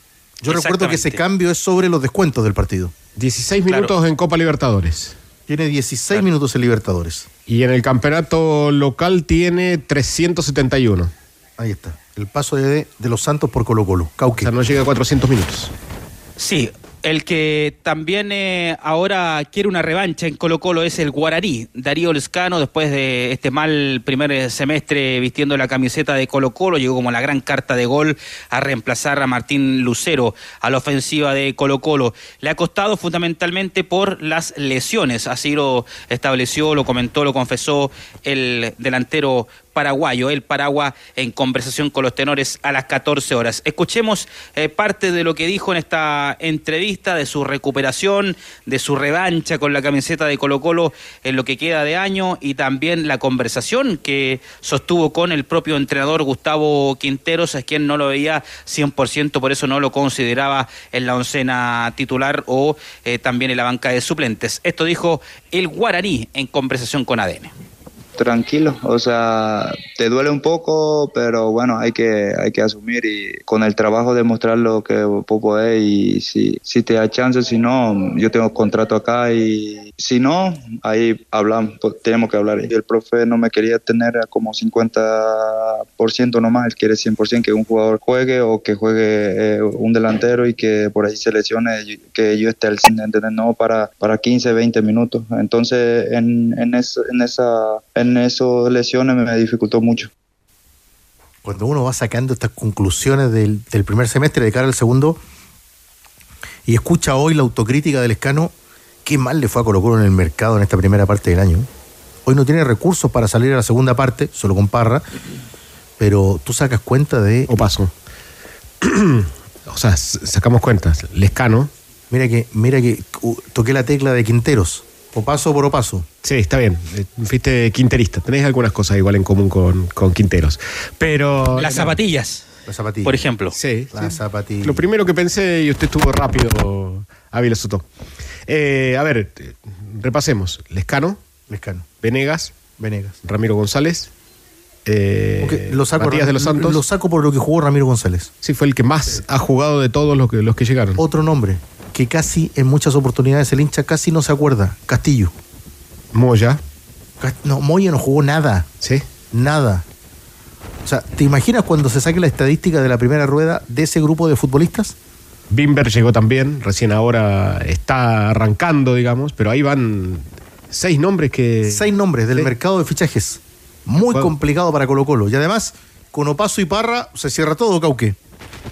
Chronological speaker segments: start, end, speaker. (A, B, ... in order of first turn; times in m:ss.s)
0:00.4-0:02.9 A
0:00.5-0:01.2 B
0:03.2-0:05.2 C
0:05.5-0:07.3 A
0:07.5-0:11.1 C
0:11.6-0:14.5 A
0:14.4-0:15.7 C
0:16.4-1:07.5 B
1:08.2-1:40.1 D
1:41.4-1:45.2 A
1:46.7-1:48.5 A
1:49.0-1:51.7 A
1:52.2-1:55.0 A
1:56.0-1:57.5 A
1:57.5-1:57.9 C
1:58.8-2:01.7 C
2:02.1-2:06.1 A
2:06.2-2:12.0 C
2:11.6-2:12.4 B
2:12.7-2:13.2 A
2:13.0-2:13.6 B
2:13.6-2:17.8 C
2:13.9-2:14.8 A
2:18.5-2:21.2 C
2:21.5-2:21.9 A
2:22.0-2:22.6 C
2:22.8-2:23.2 A
2:23.2-2:24.1 C
2:24.9-2:26.8 C
2:25.4-2:28.3 A
2:28.4-2:31.0 C
2:31.0-2:35.3 A
2:36.1-2:36.6 C
2:37.2-2:38.7 A
2:39.3-2:39.8 A
2:40.8-2:45.0 A
2:45.5-2:52.5 C
2:51.7-2:58.2 A